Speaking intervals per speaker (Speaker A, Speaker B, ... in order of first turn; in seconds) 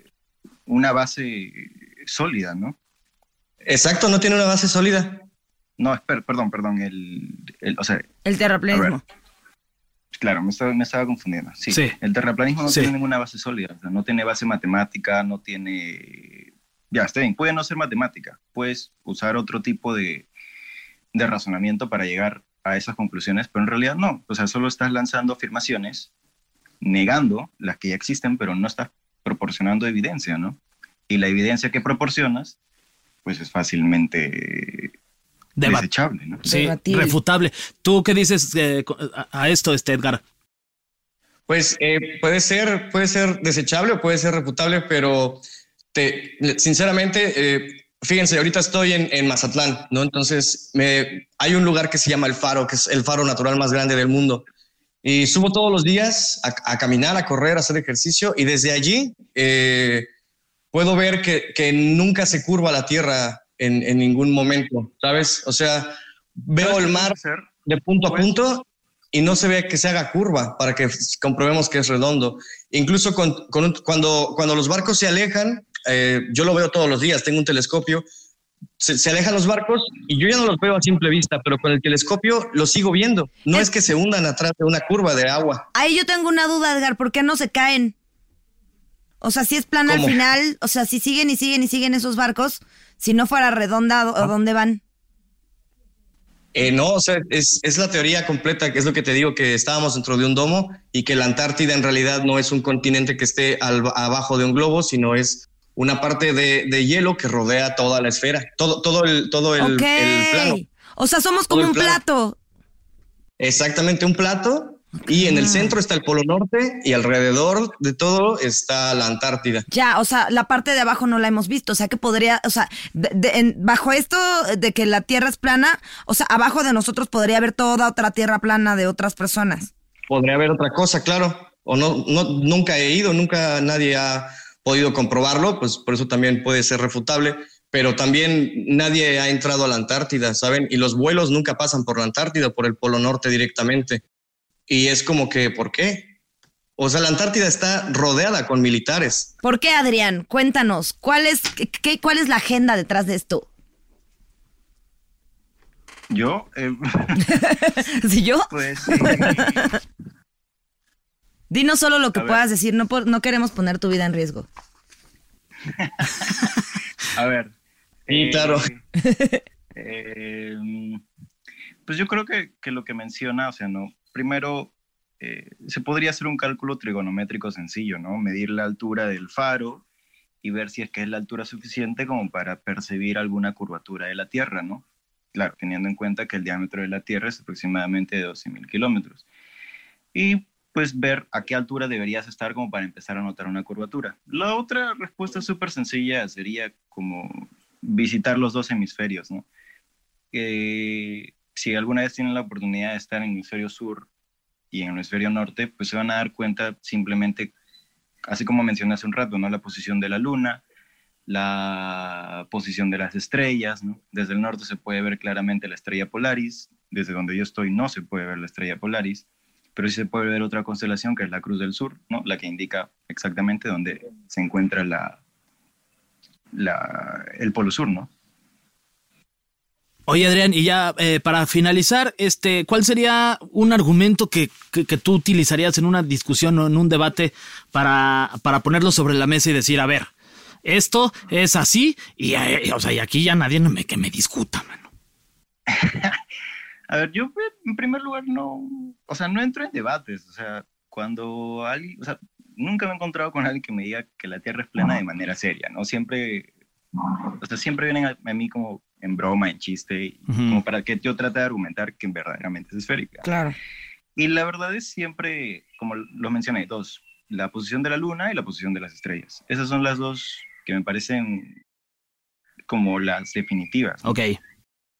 Speaker A: 0.7-2.8, 5.8-8.1, 10.2-20.3, 21.1-26.1, 26.8-30.6, 31.1-32.5, 33.2-34.9, 35.6-36.4, 66.6-67.5, 68.0-68.3, 156.1-157.3, 158.5-159.7, 162.1-162.4, 165.7-166.5, 167.1-167.5, 168.1-168.8, 169.7-171.0, 171.8-179.8, 180.4-184.8, 185.3-189.2, 190.1-199.4, 200.3-204.1, 204.7-207.5, 208.3-210.6, 211.3-225.2, 226.5-228.1, 245.7-246.2, 246.9-256.5, 257.4-263.2, 264.1-271.5, 272.7-274.1
Speaker B: 3.6-5.2, 41.5-54.4, 55.0-60.1, 60.7-78.0, 78.8-85.7, 89.8-90.2, 96.5-110.6, 111.5-112.0, 113.4-119.7, 130.1-144.0, 144.7-146.1, 146.8-149.3, 168.1-168.7
Speaker C: 8.2-9.0, 36.4-37.1, 85.7-87.9, 89.2-94.8, 109.6-112.4, 115.0-115.8, 119.7-129.7, 149.4-153.5, 157.3-159.8, 161.5-164.5, 169.0-169.4, 263.2-263.6
Speaker D: 36.5-40.2, 230.1-240.0, 240.7-244.7